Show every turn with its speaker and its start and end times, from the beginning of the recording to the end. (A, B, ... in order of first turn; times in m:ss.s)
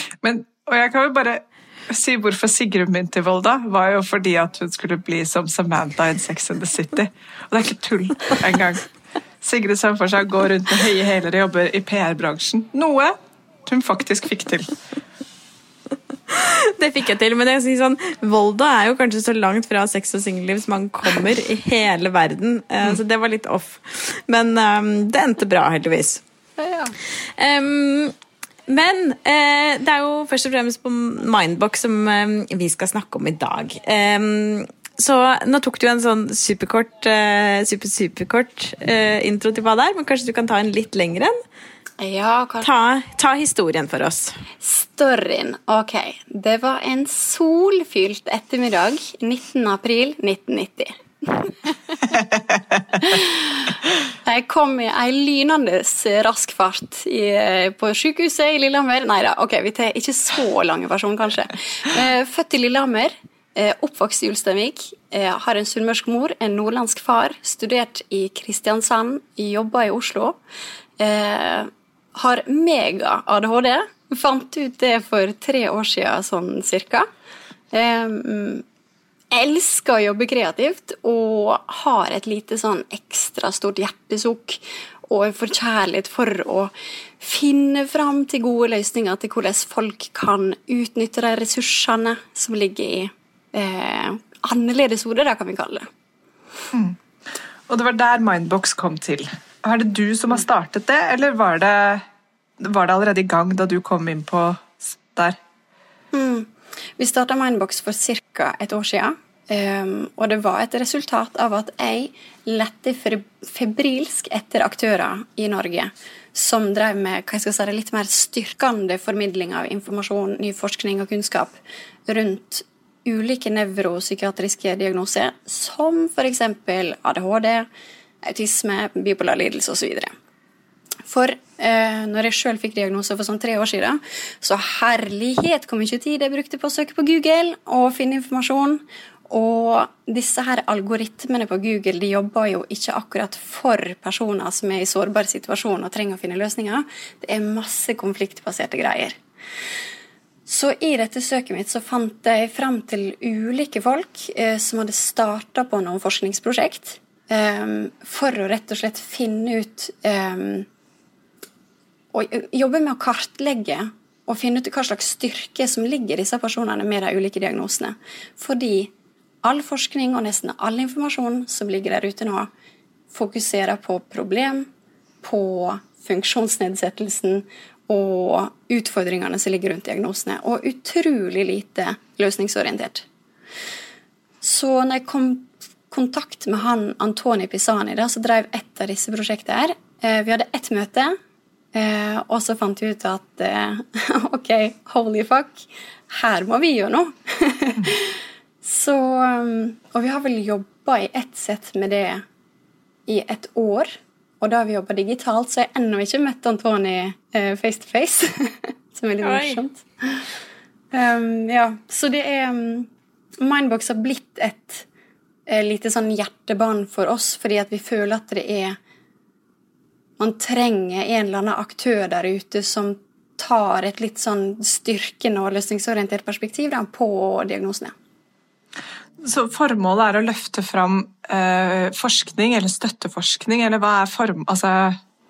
0:00.2-0:08.8 A
0:09.4-0:14.7 A
0:16.3-0:26.2 B
0:26.6-0:27.0 C
0:27.4-0:28.1 B
0:28.7-0:41.4 B
0:42.0-0:42.7 C
0:42.6-0:44.4 B
0:44.6-0:52.2 C
0:52.9-1:10.4 C
1:11.0-1:17.1 C
1:17.7-1:18.6 C
1:19.3-1:35.9 C
1:37.7-1:42.0 A
1:42.6-1:45.4 A
1:46.1-2:01.6 C
2:02.1-2:07.7 C
2:08.2-2:10.1 C
2:11.1-2:29.2 C
2:30.5-2:40.7 C
2:42.1-2:48.9 C
2:49.4-2:52.5 C
2:53.1-2:54.7 C
2:55.2-3:03.1 C
3:04.4-3:11.2 C
3:11.7-3:22.2 C
3:23.1-3:30.2 C
3:29.2-3:29.6 B
3:30.9-3:32.9 C
3:33.4-3:34.8 C
3:35.5-3:38.8 C
3:40.2-3:47.9 C
3:49.2-3:55.0 A